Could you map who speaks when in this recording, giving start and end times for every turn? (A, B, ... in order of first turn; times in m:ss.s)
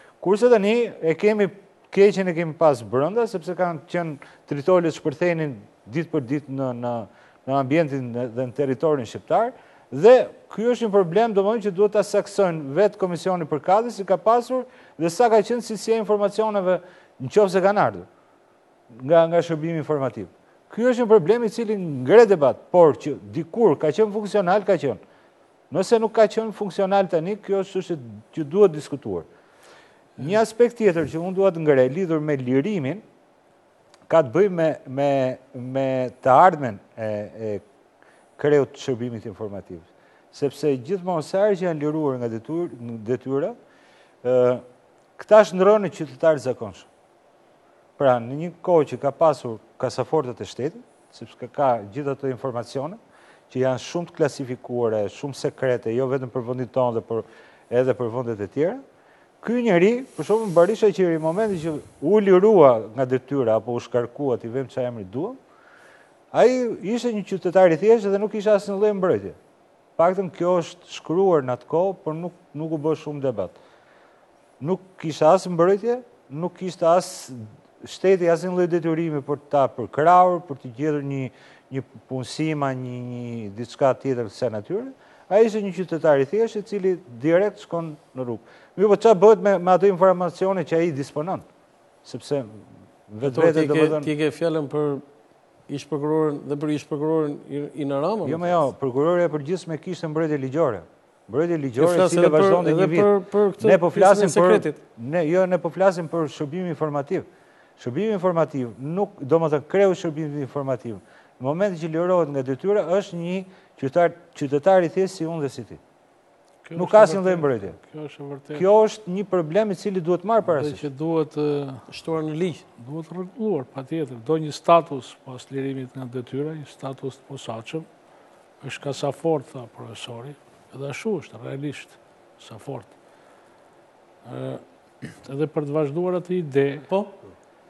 0:00.2-0:18.1 A
0:18.9-0:25.0 A
0:25.7-0:29.3 A
0:30.2-0:33.0 A
0:34.1-0:37.6 A
0:38.4-0:43.6 A
0:44.2-0:44.6 A
0:45.2-0:46.9 A
0:48.0-0:58.8 A
0:59.4-1:05.4 A
1:06.3-1:09.4 A
1:10.0-1:13.6 A
1:14.6-1:31.5 A
1:32.0-1:34.1 A
1:33.2-1:35.0 B
1:35.7-1:38.6 B
1:38.2-1:47.3 A
1:41.8-1:44.8 B
1:47.8-1:55.8 A
1:56.6-1:58.7 C
1:56.8-1:57.8 A
1:58.5-2:00.8 A
2:00.5-2:01.9 C
2:01.9-2:02.7 B
2:02.8-2:07.9 C
2:08.6-2:12.9 C
2:14.2-2:16.9 C
2:16.9-2:17.2 B